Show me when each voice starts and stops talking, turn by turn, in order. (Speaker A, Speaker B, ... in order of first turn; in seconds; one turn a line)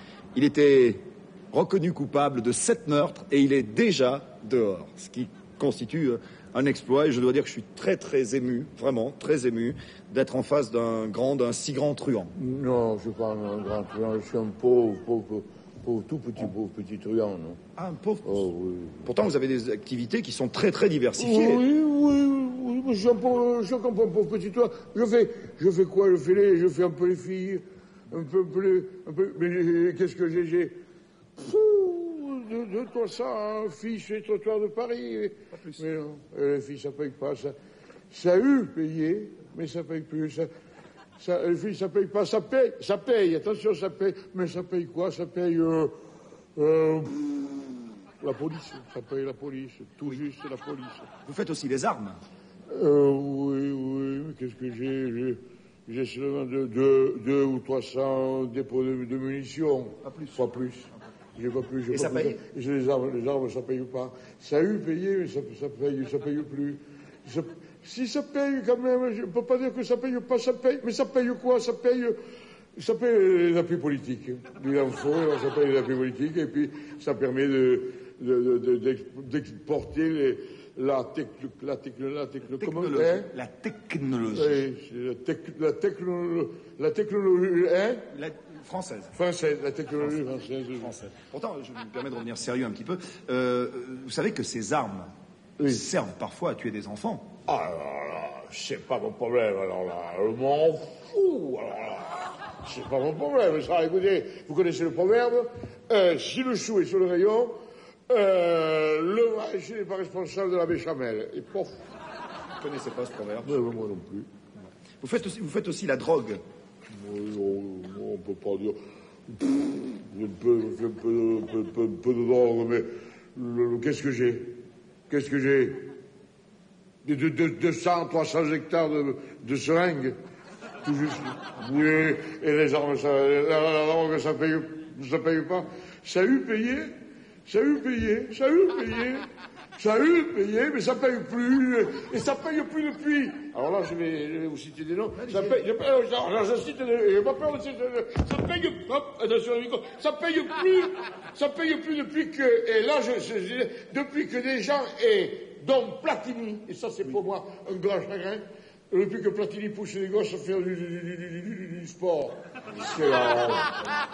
Speaker A: 0.3-12.3
Speaker B: 12.4-17.6
Speaker A: 17.8-18.5
Speaker B: 18.2-19.1
Speaker A: 19.1-21.6
Speaker B: 21.2-30.8
Speaker B: 31.4-37.5
Speaker A: 35.5-35.9
Speaker B: 38.1-40.5
Speaker B: 41.2-45.9
Speaker B: 46.5-47.7
Speaker B: 48.2-51.1
Speaker A: 51.2-52.2
Speaker B: 52.7-72.2
Speaker A: 60.0-60.5
Speaker A: 61.9-62.4
Speaker B: 72.8-83.3
Speaker A: 82.6-84.6
Speaker B: 84.3-88.0
Speaker A: 88.1-89.2
Speaker B: 89.1-91.0
Speaker A: 90.7-95.1
Speaker A: 95.6-97.3
Speaker B: 97.5-107.5
Speaker B: 108.1-111.8
Speaker A: 112.6-113.6
Speaker B: 113.4-114.3
Speaker A: 115.0-116.4
Speaker B: 116.9-118.8
Speaker B: 119.3-124.6
Speaker B: 125.1-125.8
Speaker B: 127.0-130.1
Speaker B: 130.8-136.9
Speaker B: 137.5-139.2
Speaker B: 139.8-163.8
Speaker A: 145.2-145.6